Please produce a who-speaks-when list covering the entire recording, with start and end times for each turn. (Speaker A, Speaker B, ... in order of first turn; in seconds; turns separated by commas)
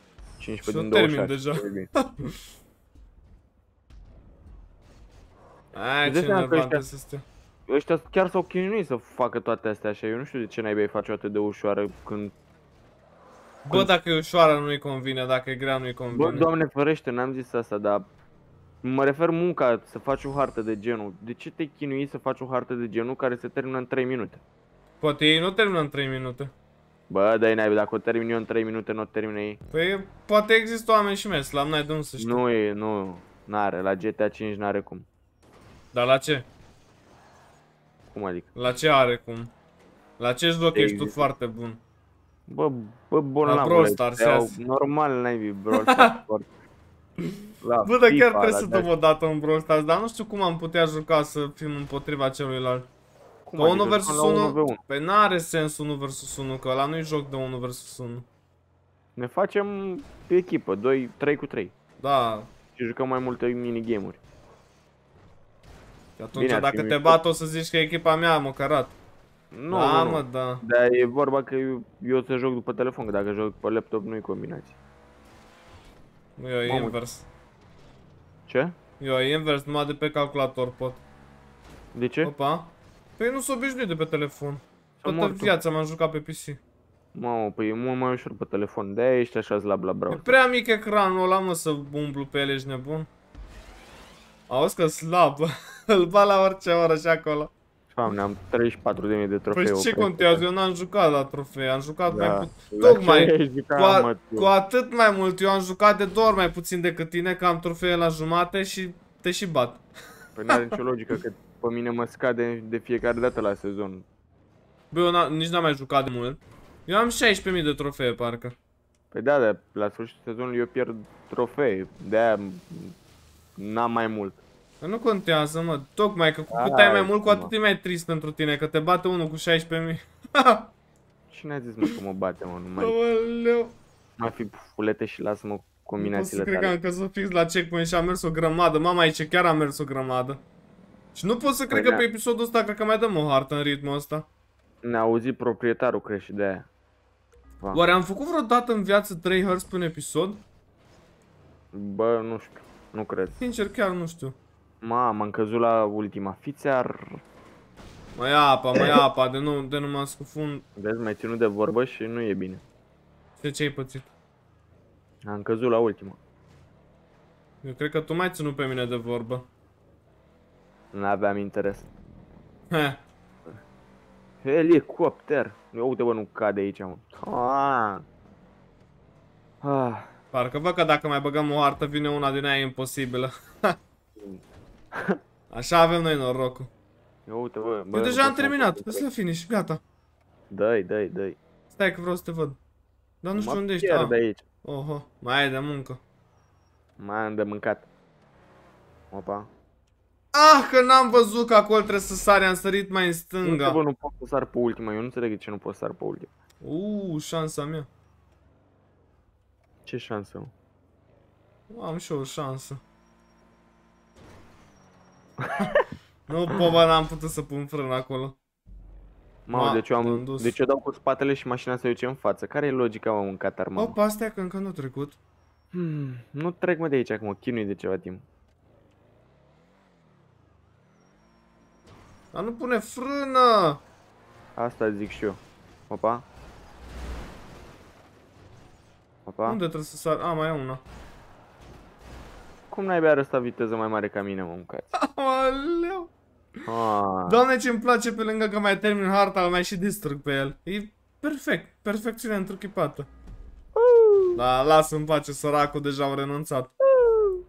Speaker A: 0.4-1.9, Speaker B: 0.6-2.3, Speaker B: 5.7-7.2, Speaker A: 6.0-6.8, Speaker A: 7.7-12.3, Speaker B: 13.7-16.5, Speaker A: 16.1-18.1, Speaker A: 18.8-24.4, Speaker B: 25.0-26.5, Speaker A: 27.1-29.6, Speaker B: 29.7-32.4, Speaker A: 32.2-35.1, Speaker B: 35.9-36.5, Speaker A: 38.1-38.5, Speaker B: 38.5-39.5, Speaker B: 40.2-41.8, Speaker A: 40.8-41.3, Speaker A: 42.5-46.5, Speaker B: 43.4-44.6, Speaker B: 45.7-46.0, Speaker A: 47.6-48.9, Speaker B: 47.8-52.9, Speaker A: 53.5-54.8, Speaker B: 53.6-58.3, Speaker A: 59.2-61.7, Speaker B: 62.0-62.5, Speaker A: 62.8-64.2, Speaker B: 66.2-69.0, Speaker A: 66.3-67.2, Speaker A: 69.5-74.8, Speaker B: 69.7-70.6, Speaker B: 76.4-77.3, Speaker A: 76.7-77.0, Speaker A: 78.5-78.8, Speaker B: 79.0-81.0, Speaker A: 81.9-82.3, Speaker B: 82.2-86.6, Speaker A: 85.0-85.5, Speaker A: 87.1-90.3, Speaker B: 90.1-93.1, Speaker B: 94.5-97.5, Speaker A: 97.9-100.4, Speaker B: 99.5-109.8, Speaker A: 102.1-104.5, Speaker A: 110.4-114.1, Speaker B: 114.9-118.6, Speaker A: 119.1-123.0, Speaker A: 123.6-124.4, Speaker B: 124.8-130.7, Speaker A: 126.5-127.5, Speaker A: 131.3-133.0, Speaker B: 132.8-133.8, Speaker A: 134.2-136.8, Speaker B: 136.0-140.4, Speaker B: 141.2-144.3, Speaker A: 141.7-142.0, Speaker A: 144.8-146.7, Speaker B: 147.7-150.4, Speaker A: 151.7-153.4, Speaker B: 153.4-154.4, Speaker A: 154.8-157.2, Speaker B: 158.2-160.7, Speaker A: 160.8-162.6, Speaker B: 163.4-164.1, Speaker A: 165.2-166.2, Speaker B: 167.6-169.5, Speaker A: 170.9-171.9, Speaker B: 172.7-173.0, Speaker A: 174.4-178.1, Speaker A: 179.6-180.2, Speaker B: 180.3-183.8, Speaker A: 184.2-184.4, Speaker B: 185.5-186.7, Speaker A: 187.3-189.1, Speaker B: 187.9-189.8, Speaker A: 190.5-191.4, Speaker B: 191.7-192.6, Speaker B: 193.2-196.0, Speaker A: 193.3-194.4, Speaker A: 197.0-197.9, Speaker A: 199.1-199.5, Speaker B: 200.3-203.8, Speaker A: 203.4-206.3, Speaker B: 206.6-207.9, Speaker A: 209.9-210.5, Speaker B: 211.7-212.8, Speaker A: 215.4-215.8, Speaker B: 216.3-218.4, Speaker A: 219.5-224.0, Speaker B: 219.5-220.6, Speaker B: 223.8-225.2, Speaker A: 225.7-228.2, Speaker B: 232.3-233.8, Speaker A: 234.6-236.2, Speaker A: 239.3-239.6, Speaker B: 239.5-240.8, Speaker A: 242.7-244.9, Speaker B: 245.0-246.1, Speaker A: 246.7-247.4, Speaker B: 247.3-253.1, Speaker A: 253.8-254.4, Speaker B: 254.4-256.7, Speaker A: 256.9-257.4